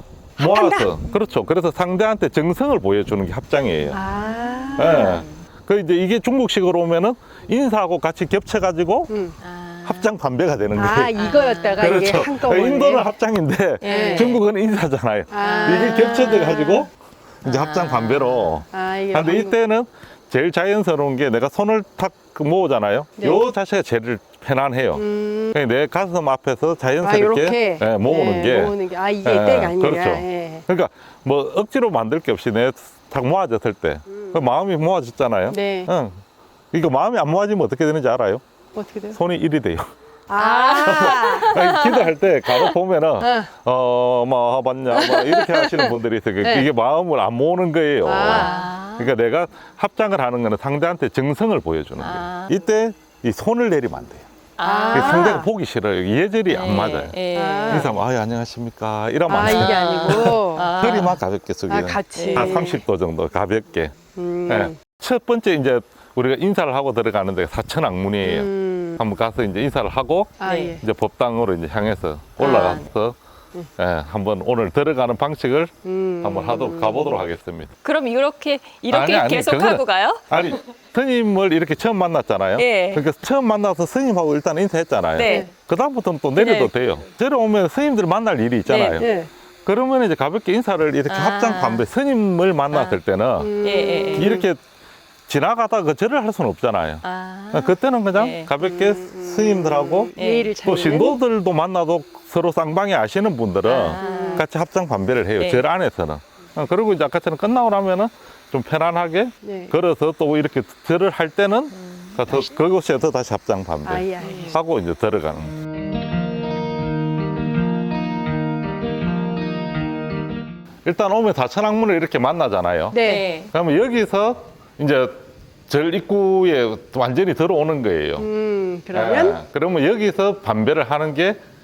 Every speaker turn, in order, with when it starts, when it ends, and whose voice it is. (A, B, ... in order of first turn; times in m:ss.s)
0:00.4-0:00.9 A
0:00.4-0:04.0 B
0:03.9-0:05.2 A
0:04.8-0:05.3 C
0:04.8-0:09.1 B
0:09.1-0:09.4 A
0:09.4-0:10.1 C
0:09.8-0:11.2 B
0:10.8-0:13.1 A
0:11.2-0:12.0 C
0:11.8-0:16.9 B
0:13.8-0:14.4 C
0:13.8-0:14.4 A
0:15.3-0:16.3 A
0:15.4-0:16.9 C
0:17.4-0:36.2 B
0:17.4-0:18.6 C
0:18.7-0:19.6 A
0:23.2-0:23.5 A
0:25.0-0:25.6 A
0:27.0-0:30.7 A
0:35.5-0:35.9 A
0:36.7-0:38.4 B
0:38.8-0:39.2 A
0:39.1-0:39.9 B
0:40.3-0:41.6 A
0:40.4-0:42.7 C
0:40.8-0:54.3 B
0:43.2-0:43.5 A
0:44.9-0:46.7 A
0:48.0-0:48.7 A
0:48.2-0:49.1 C
0:52.0-0:52.6 C
0:54.6-0:55.4 C
0:54.6-0:55.5 A
0:54.9-1:04.0 B
0:56.5-0:58.0 C
0:57.4-0:57.9 A
0:59.3-1:00.7 A
0:59.3-1:01.2 C
1:01.7-1:02.8 A
1:02.2-1:02.6 C
1:04.1-1:04.8 A
1:04.5-1:13.2 B
1:08.2-1:09.0 A
1:10.4-1:10.8 A
1:10.4-1:10.7 C
1:12.4-1:12.9 C
1:13.8-1:17.7 B
1:15.8-1:17.2 A
1:17.8-1:20.3 C
1:18.9-1:29.1 B
1:22.6-1:23.0 C
1:25.2-1:25.5 C
1:25.2-1:25.5 A
1:26.4-1:26.7 C
1:28.7-1:29.1 C
1:29.0-1:29.3 A
1:29.6-1:33.6 B
1:31.1-1:31.9 C
1:32.7-1:33.0 C
1:33.4-1:34.5 A
1:33.6-1:34.4 C
1:34.1-1:34.6 B
1:35.3-1:40.1 B
1:37.0-1:38.5 C
1:38.6-1:41.2 A
1:40.2-1:40.5 C
1:40.6-1:55.5 B
1:43.6-1:44.4 C
1:44.0-1:44.4 A
1:45.4-1:45.6 C
1:49.4-1:49.8 A
1:51.8-1:52.4 C
1:53.8-1:54.6 A
2:00.8-2:08.3 B
2:02.9-2:03.3 A
2:03.0-2:03.5 C
2:08.2-2:09.4 A
2:08.9-2:11.4 B